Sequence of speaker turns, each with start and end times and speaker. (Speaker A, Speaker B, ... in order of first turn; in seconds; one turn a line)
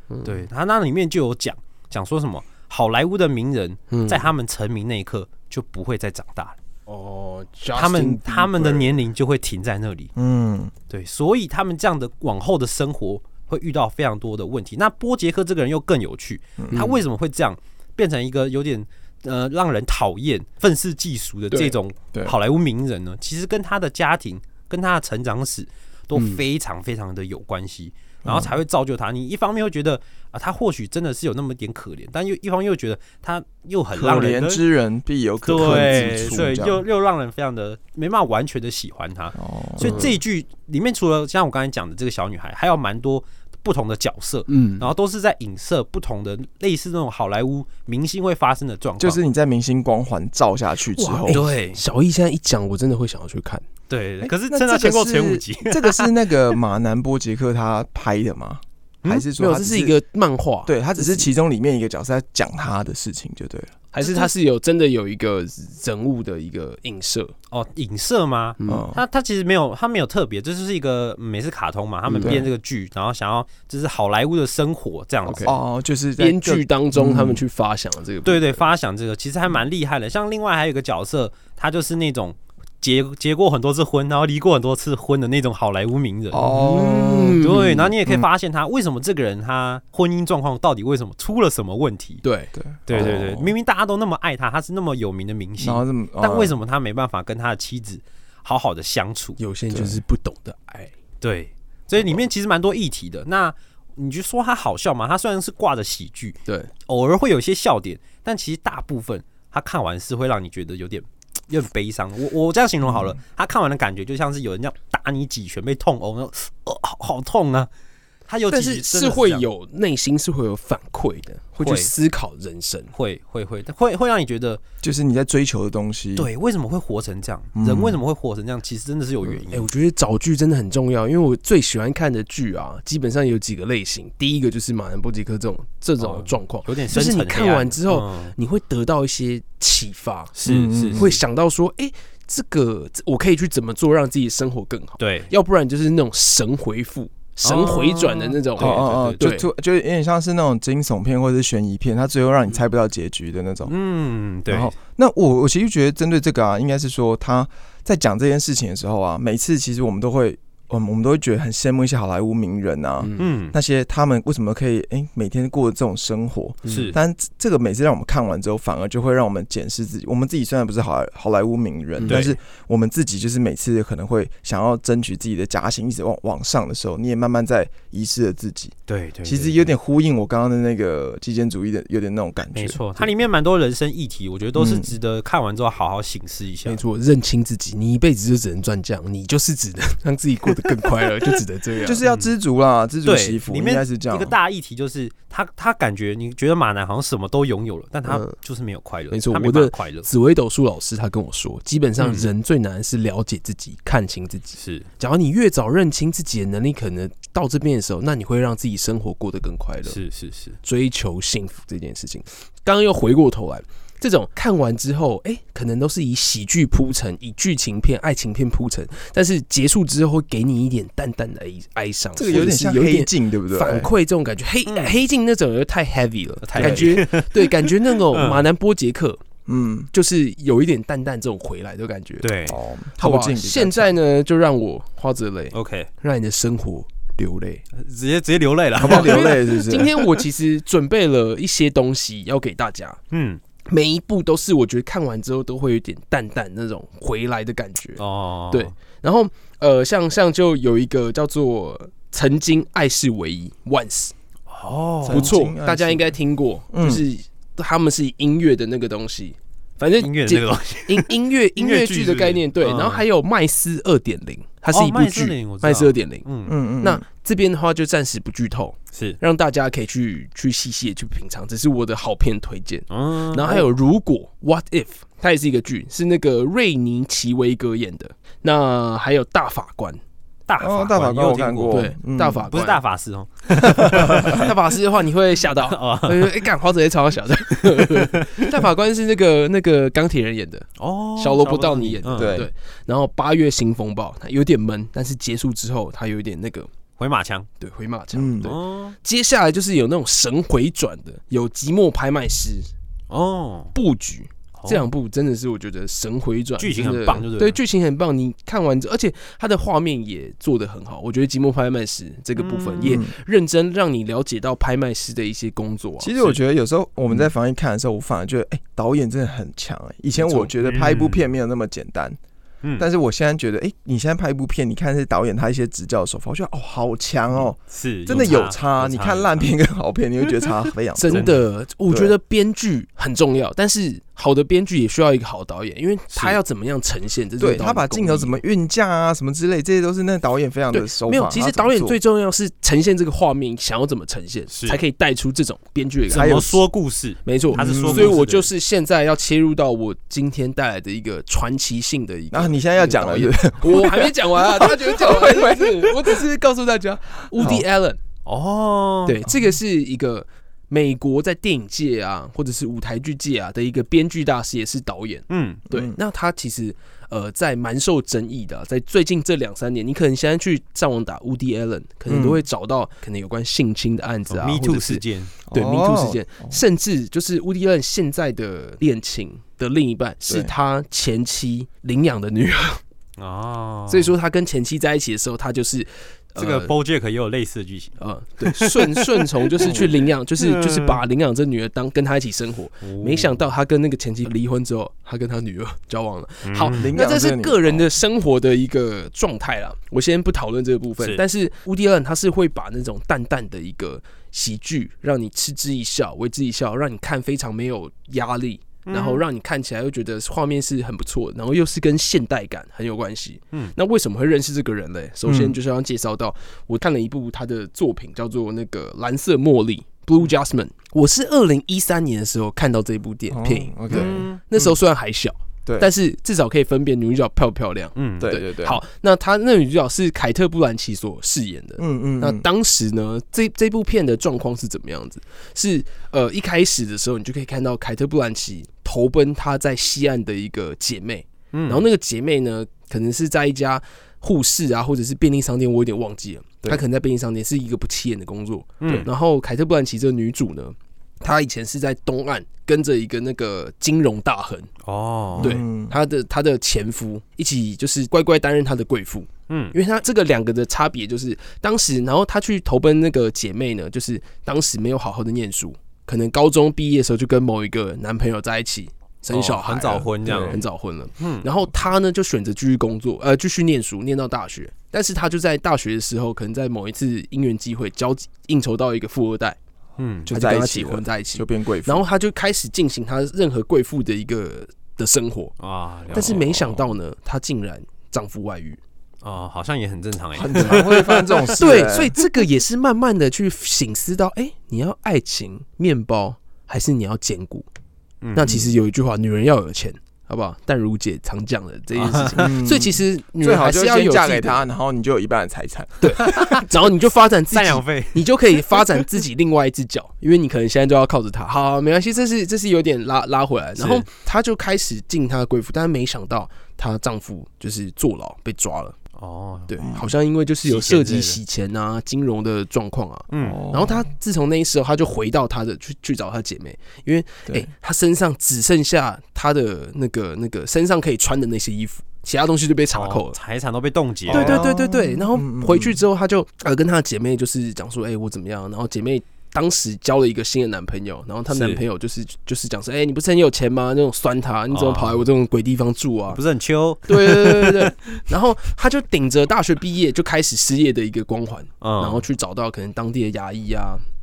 Speaker A: 0.1-0.4
Speaker B: 0.2-6.5
Speaker A: 3.9-4.3
Speaker A: 6.9-8.9
Speaker B: 7.7-10.1
Speaker C: 10.2-10.7
Speaker B: 10.9-34.6
Speaker A: 16.7-17.0
Speaker A: 26.1-26.4
Speaker C: 28.2-28.6
Speaker C: 33.9-36.8
Speaker B: 35.4-49.2
Speaker C: 39.4-40.1
Speaker A: 39.8-40.2
Speaker A: 44.5-44.9
Speaker C: 49.0-51.4
Speaker A: 51.0-53.6
Speaker B: 51.3-51.8
Speaker B: 53.9-56.1
Speaker C: 54.2-59.9
Speaker A: 59.4-61.3
Speaker C: 60.6-63.8
Speaker A: 63.9-67.3
Speaker B: 64.0-64.3
Speaker B: 67.5-75.5
Speaker A: 68.6-68.8
Speaker C: 68.7-69.0
Speaker A: 72.1-72.4
Speaker C: 72.2-72.5
Speaker A: 75.2-75.5
Speaker C: 75.4-77.4
Speaker A: 76.2-78.6
Speaker B: 78.2-86.4
Speaker C: 86.3-87.4
Speaker A: 86.4-87.9
Speaker B: 87.4-92.2
Speaker A: 92.2-93.1
Speaker C: 92.5-93.5
Speaker B: 92.9-99.4
Speaker C: 95.6-96.5
Speaker A: 99.4-100.9
Speaker C: 99.7-100.0
Speaker B: 101.2-117.7
Speaker C: 112.9-113.1
Speaker B: 118.3-119.5
Speaker A: 118.5-122.9
Speaker B: 121.6-121.9
Speaker B: 122.9-124.6
Speaker C: 124.8-126.3
Speaker B: 126.2-129.7
Speaker C: 127.5-128.0
Speaker A: 129.5-140.3
Speaker B: 136.0-138.3
Speaker B: 140.3-141.1
Speaker C: 140.4-141.2
Speaker A: 140.9-149.5
Speaker B: 145.0-145.3
Speaker B: 147.4-149.3
Speaker C: 148.6-153.7
Speaker B: 153.7-154.7
Speaker C: 154.5-183.1
Speaker A: 163.0-163.3
Speaker B: 163.2-163.6
Speaker A: 166.6-167.0
Speaker B: 166.7-167.0
Speaker A: 172.0-172.3
Speaker B: 172.0-172.3
Speaker B: 178.9-179.7
Speaker B: 182.5-186.8
Speaker C: 184.5-184.9
Speaker A: 186.6-192.0
Speaker C: 191.8-194.3
Speaker B: 192.0-192.3
Speaker B: 193.0-200.1
Speaker A: 198.1-198.3
Speaker A: 199.1-210.0
Speaker B: 202.0-202.3
Speaker B: 204.6-204.9
Speaker B: 209.8-210.6
Speaker A: 210.6-229.2
Speaker C: 222.2-223.9
Speaker B: 224.7-225.0
Speaker B: 226.4-228.5
Speaker C: 226.6-226.9
Speaker C: 229.5-229.9
Speaker A: 229.9-232.3
Speaker B: 232.2-232.6
Speaker C: 232.5-233.9
Speaker A: 233.0-237.6
Speaker B: 235.5-235.9
Speaker B: 237.7-240.0
Speaker C: 238.8-239.9
Speaker A: 238.8-243.0
Speaker B: 243.1-243.4
Speaker A: 243.6-254.1
Speaker B: 248.0-248.7
Speaker B: 254.5-255.3
Speaker C: 255.0-256.1
Speaker A: 255.1-266.2
Speaker C: 256.7-257.0
Speaker B: 260.0-263.0
Speaker B: 264.7-266.5
Speaker C: 266.4-267.0
Speaker A: 266.8-280.0
Speaker B: 268.9-269.2
Speaker B: 272.9-273.7
Speaker B: 280.5-281.9
Speaker C: 280.6-282.5
Speaker A: 281.7-282.8
Speaker B: 282.5-284.5
Speaker A: 283.6-296.7
Speaker C: 283.9-284.4
Speaker B: 285.5-286.5
Speaker B: 287.6-288.4
Speaker B: 290.8-292.4
Speaker C: 292.1-292.5
Speaker B: 297.0-297.5
Speaker A: 297.6-302.7
Speaker C: 298.1-298.5
Speaker B: 298.4-298.9
Speaker B: 303.1-303.7
Speaker A: 303.7-316.1
Speaker B: 304.5-304.9
Speaker B: 306.6-307.6
Speaker B: 312.4-313.0
Speaker C: 312.8-313.1
Speaker C: 316.0-322.2
Speaker A: 320.2-320.5
Speaker B: 320.6-321.2
Speaker C: 322.8-331.4
Speaker B: 327.7-329.5
Speaker A: 331.0-338.4
Speaker B: 331.1-331.4
Speaker C: 331.9-332.1
Speaker C: 337.4-342.0
Speaker A: 340.7-346.6
Speaker B: 344.5-344.8
Speaker B: 346.1-348.5
Speaker C: 346.1-346.6
Speaker A: 347.2-358.0
Speaker C: 347.5-348.2
Speaker C: 352.3-356.3
Speaker C: 357.4-357.6
Speaker B: 358.2-359.2
Speaker A: 359.1-382.8
Speaker B: 365.3-365.6
Speaker C: 365.7-365.9
Speaker C: 372.1-372.4
Speaker B: 374.3-375.3
Speaker C: 375.5-376.6
Speaker C: 380.3-380.5
Speaker B: 383.2-384.1
Speaker A: 383.9-386.7
Speaker B: 386.4-389.8
Speaker A: 388.0-454.7
Speaker C: 389.6-389.9
Speaker B: 390.4-391.0
Speaker B: 392.8-393.4
Speaker B: 396.4-396.9
Speaker C: 396.7-397.9
Speaker B: 408.9-409.2
Speaker C: 415.2-415.6
Speaker C: 423.3-424.8
Speaker B: 423.9-424.4
Speaker B: 427.9-428.4
Speaker C: 428.2-428.8
Speaker C: 431.8-432.4
Speaker B: 441.5-441.9
Speaker B: 448.8-449.1
Speaker B: 454.8-455.6
Speaker C: 455.4-455.9
Speaker A: 455.4-479.6
Speaker B: 459.5-459.7
Speaker B: 469.3-470.6
Speaker C: 470.2-470.6
Speaker B: 471.2-471.4
Speaker B: 480.0-480.3
Speaker C: 480.2-482.0
Speaker A: 480.3-485.6
Speaker B: 485.6-486.9
Speaker A: 486.1-488.8
Speaker B: 489.2-491.7
Speaker C: 490.4-492.1
Speaker A: 490.6-490.8
Speaker A: 491.6-497.6
Speaker B: 498.2-498.5
Speaker A: 498.3-504.6
Speaker C: 498.4-498.7
Speaker B: 501.9-502.5
Speaker C: 502.4-506.6
Speaker A: 506.0-519.0
Speaker B: 506.2-506.7
Speaker B: 507.5-509.0
Speaker B: 513.8-514.1
Speaker B: 519.1-519.8
Speaker A: 519.7-533.4
Speaker C: 519.8-520.1
Speaker B: 520.6-521.4
Speaker B: 523.3-523.6
Speaker C: 523.4-524.1
Speaker B: 532.9-534.6
Speaker C: 534.3-536.0
Speaker A: 534.3-546.4
Speaker B: 541.5-541.8
Speaker B: 544.7-545.2
Speaker B: 546.3-548.2
Speaker A: 547.1-554.0
Speaker B: 551.8-552.2